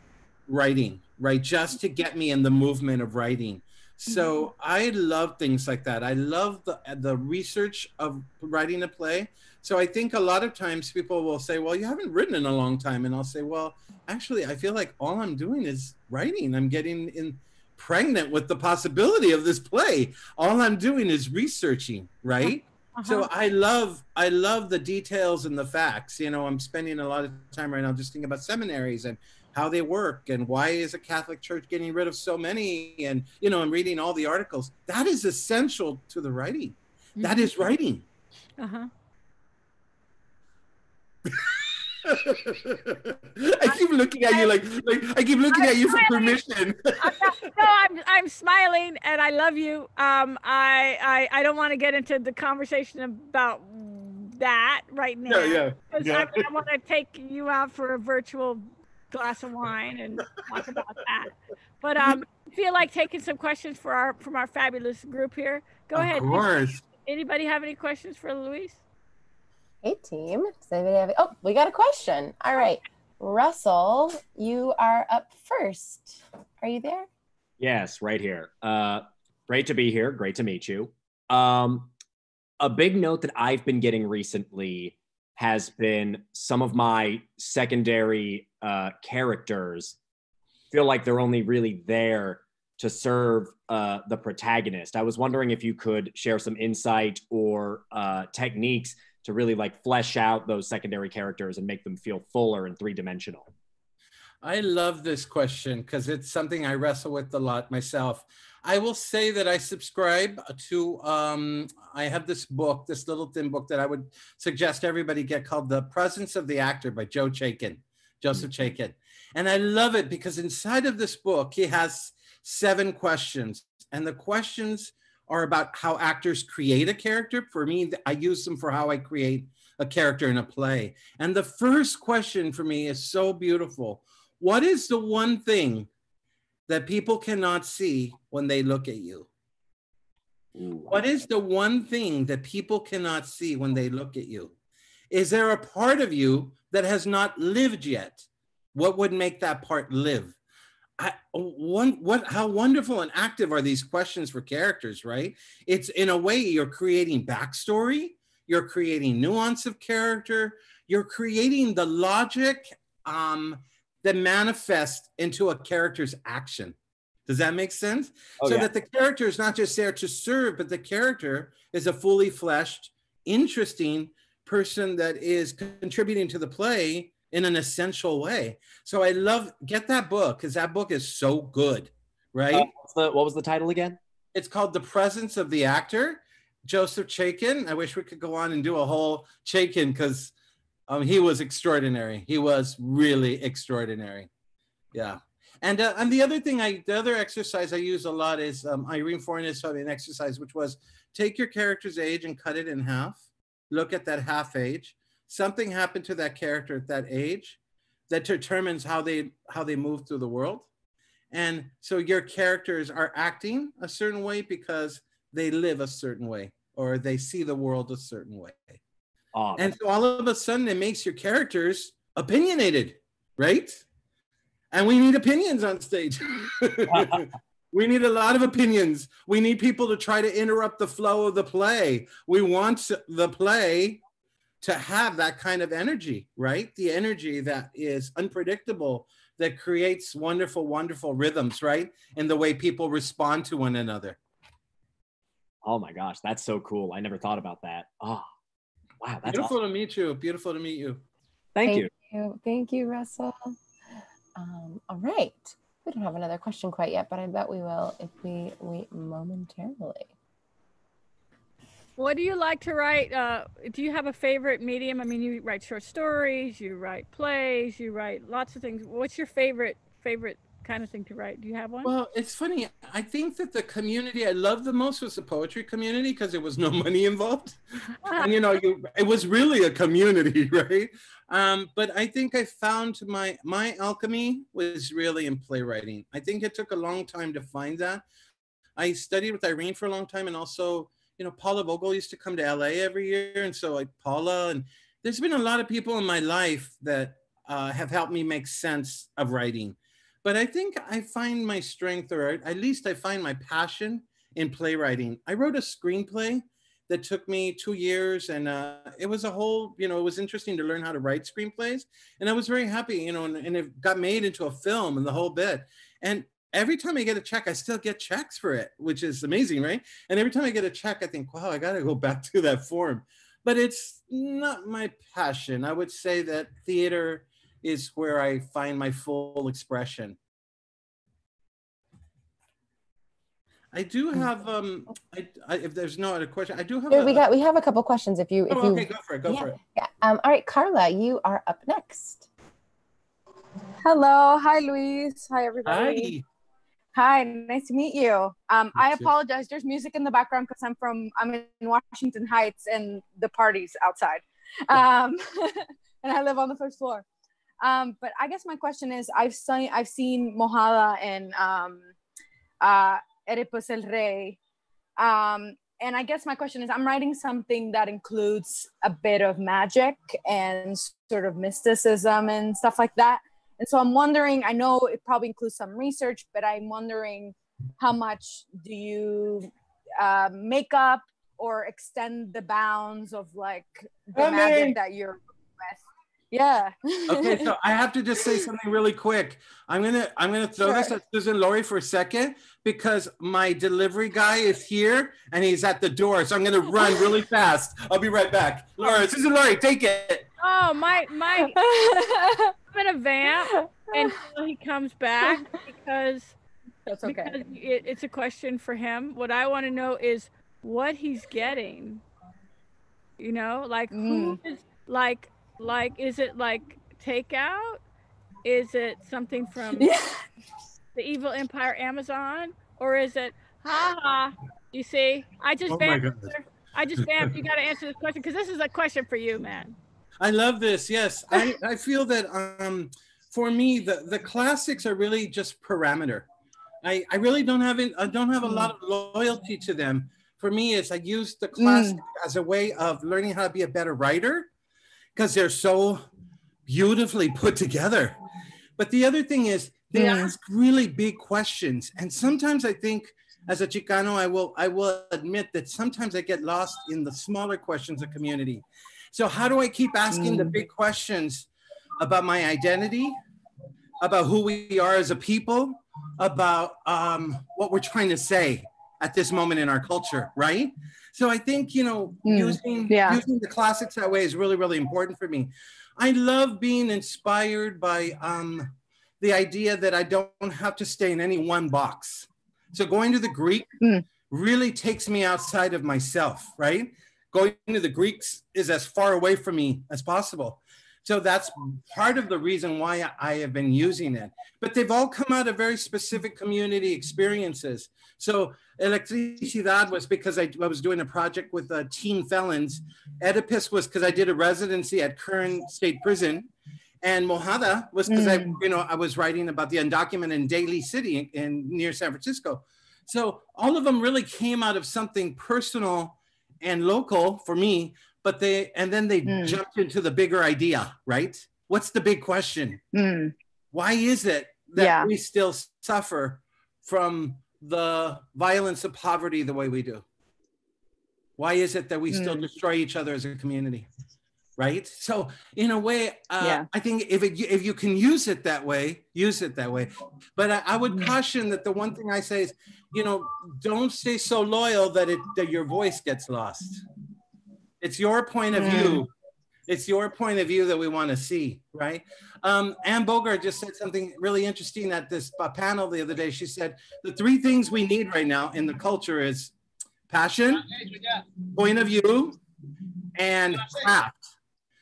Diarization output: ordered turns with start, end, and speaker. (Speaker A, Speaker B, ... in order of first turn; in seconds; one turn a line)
Speaker A: 0.5-38.0
Speaker B: 4.1-4.5
Speaker B: 22.4-23.3
Speaker B: 37.2-37.5
Speaker B: 38.6-38.9
Speaker A: 41.3-47.2
Speaker B: 43.6-44.5
Speaker B: 45.5-46.4
Speaker B: 47.0-68.8
Speaker A: 55.3-56.5
Speaker A: 65.9-66.8
Speaker C: 69.8-77.1
Speaker D: 77.6-81.9
Speaker D: 82.6-90.0
Speaker D: 90.7-103.5
Speaker A: 104.4-135.9
Speaker A: 136.7-139.3
Speaker D: 140.6-141.0
Speaker A: 140.9-144.5
Speaker A: 145.1-150.4
Speaker A: 151.0-166.8
Speaker A: 167.3-182.7
Speaker D: 168.4-168.7
Speaker D: 182.5-184.0
Speaker A: 184.3-190.3
Speaker A: 190.9-194.3
Speaker A: 194.9-210.7
Speaker A: 211.3-218.8
Speaker D: 219.3-219.7
Speaker A: 219.6-223.8
Speaker A: 224.7-234.0
Speaker D: 226.9-227.2
Speaker A: 234.6-244.2
Speaker D: 245.6-248.3
Speaker D: 249.0-249.5
Speaker A: 249.3-251.0
Speaker D: 251.5-251.9
Speaker C: 251.7-253.6
Speaker C: 254.3-260.1
Speaker B: 262.0-271.9
Speaker A: 271.8-288.0
Speaker A: 288.8-330.2
Speaker A: 333.7-337.2
Speaker C: 336.9-342.3
Speaker A: 338.5-339.6
Speaker E: 343.8-346.1
Speaker A: 345.6-346.2
Speaker E: 346.9-357.1
Speaker A: 348.8-349.1
Speaker E: 357.6-361.9
Speaker E: 362.6-364.4
Speaker E: 365.0-387.5
Speaker A: 384.1-384.8
Speaker A: 387.1-400.3
Speaker E: 390.6-390.9
Speaker B: 400.4-401.6
Speaker E: 401.4-402.5
Speaker B: 402.7-406.3
Speaker E: 403.5-404.1
Speaker E: 406.9-407.4
Speaker B: 407.0-412.0
Speaker B: 413.2-417.8
Speaker E: 413.9-414.4
Speaker B: 418.4-419.9
Speaker E: 419.8-420.2
Speaker B: 420.9-429.8
Speaker A: 425.7-426.3
Speaker A: 430.2-436.3
Speaker A: 436.8-444.5
Speaker E: 438.4-438.7
Speaker E: 441.6-442.0
Speaker A: 445.1-446.0
Speaker A: 446.6-448.2
Speaker A: 448.8-463.1
Speaker E: 449.9-450.3
Speaker E: 460.1-460.6
Speaker A: 464.0-483.7
Speaker E: 472.2-473.2
Speaker E: 483.8-484.1
Speaker A: 484.2-506.5
Speaker A: 507.0-522.8
Speaker E: 508.1-508.6
Speaker E: 519.2-519.6
Speaker E: 522.9-523.3
Speaker A: 523.7-530.0
Speaker E: 524.8-525.1
Speaker A: 531.4-533.9
Speaker E: 532.1-532.5
Speaker A: 534.6-546.8
Speaker E: 536.4-536.7
Speaker A: 547.8-549.1
Speaker E: 548.5-549.0
Speaker A: 549.7-559.5
Speaker A: 560.1-562.4
Speaker A: 563.1-564.3